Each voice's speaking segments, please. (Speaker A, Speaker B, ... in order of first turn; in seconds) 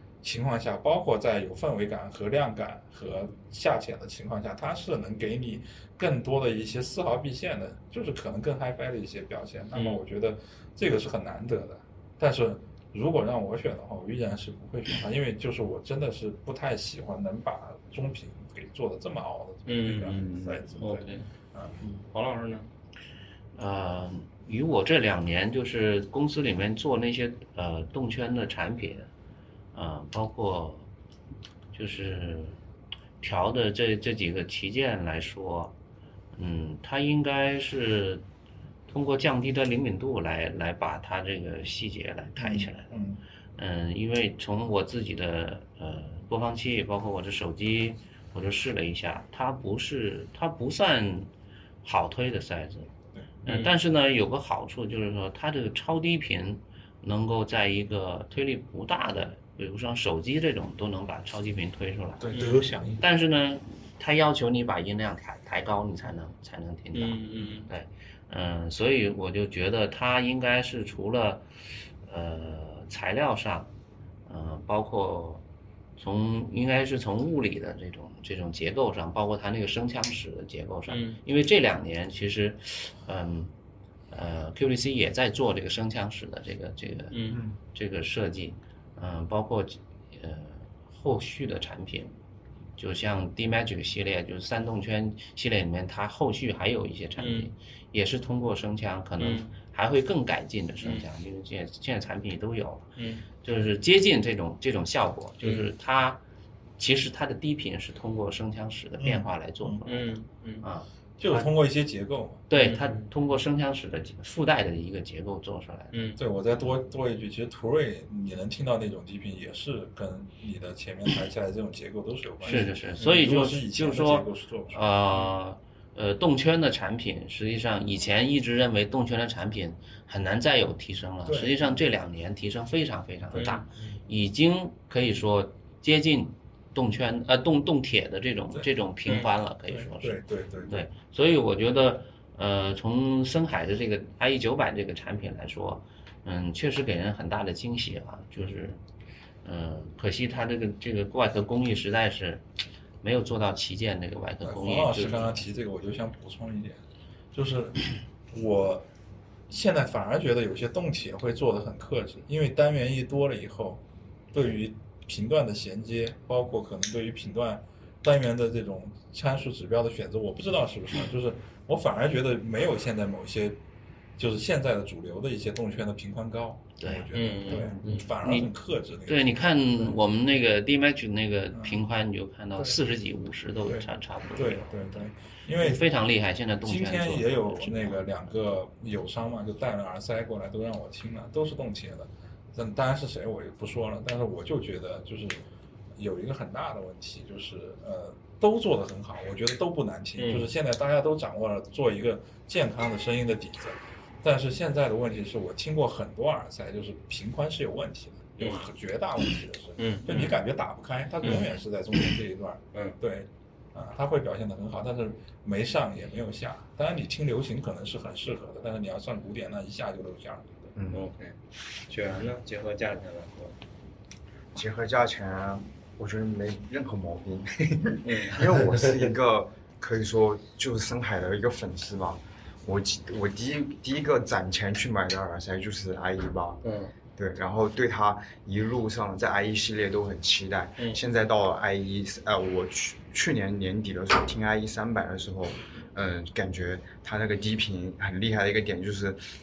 Speaker A: 0.2-21.8, 42.4-43.2, 62.2-63.0, 109.0-109.8, 111.2-112.5, 116.2-124.8, 131.2-131.8, 139.7-140.8, 154.4-156.8, 157.3-158.9, 159.5-163.8, 164.3-173.6, 174.2-180.0, 181.5-181.8, 183.6-185.8, 186.6-195.4, 196.0-220.7
Speaker B: 9.7-10.0, 19.7-20.2, 20.8-21.3, 22.0-22.7, 53.5-53.7, 62.3-62.6, 66.9-67.7, 80.9-81.2, 87.1-87.4, 97.2-97.5, 99.2-99.5, 103.0-103.2, 105.4-105.7, 109.8-110.6, 112.5-112.9, 115.9-116.2, 133.3-133.6, 177.1-177.7, 200.2-200.5, 208.4-208.7, 209.8-210.3, 220.9-221.3, 221.9-223.5, 228.0-228.4, 236.6-236.9
Speaker C: 20.1-20.6, 220.8-221.1, 224.5-236.6, 237.2-249.2
Speaker D: 23.6-29.1, 29.7-30.8, 31.7-32.6, 33.2-35.7, 36.3-38.2, 38.9-43.0, 43.6-51.3, 51.8-52.9, 53.4-71.4, 72.0-73.7, 74.3-75.4, 76.0-83.5, 84.1-92.1, 92.8-106.2, 106.8-111.5, 112.5-116.7, 122.4-148.8, 149.4-152.4, 153.0-155.4, 176.8-178.5, 179.1-188.0